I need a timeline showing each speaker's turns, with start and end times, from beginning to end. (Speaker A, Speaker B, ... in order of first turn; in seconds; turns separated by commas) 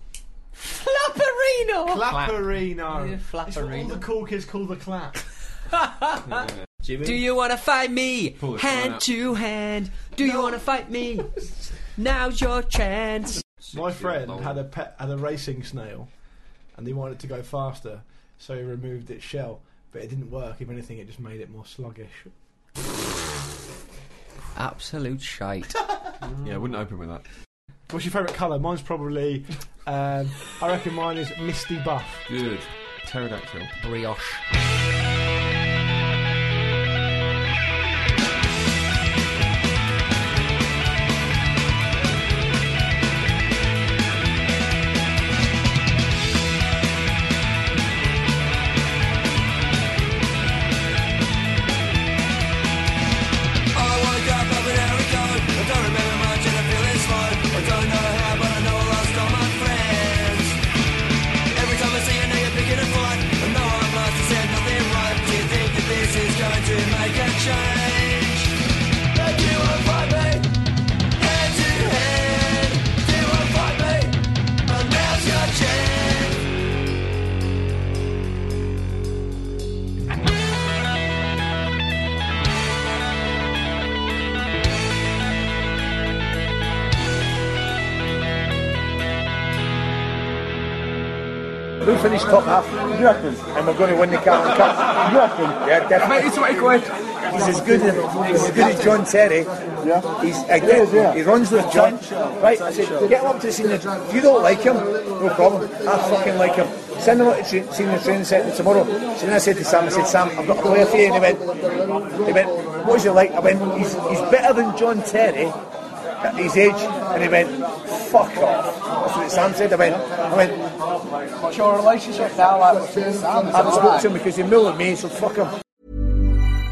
Speaker A: 0.6-2.0, Speaker B: 1.9-5.2, Speaker C: 2.0-2.4, Speaker A: 2.9-4.0, Speaker A: 5.8-6.5, Speaker C: 6.8-7.2, Speaker A: 7.0-13.4, Speaker D: 8.4-9.0, Speaker C: 13.6-14.6, Speaker B: 13.7-16.1, Speaker B: 16.7-22.3, Speaker A: 24.6-25.8, Speaker D: 26.4-27.2, Speaker B: 27.9-32.2, Speaker C: 32.3-32.7, Speaker D: 33.0-33.7, Speaker A: 33.8-34.4, Speaker C: 53.7-60.6, Speaker C: 61.5-68.5, Speaker C: 69.1-70.6, Speaker C: 71.2-76.5, Speaker E: 91.8-99.5, Speaker E: 100.1-111.5, Speaker E: 112.2-115.6, Speaker E: 116.2-120.6, Speaker E: 122.1-125.5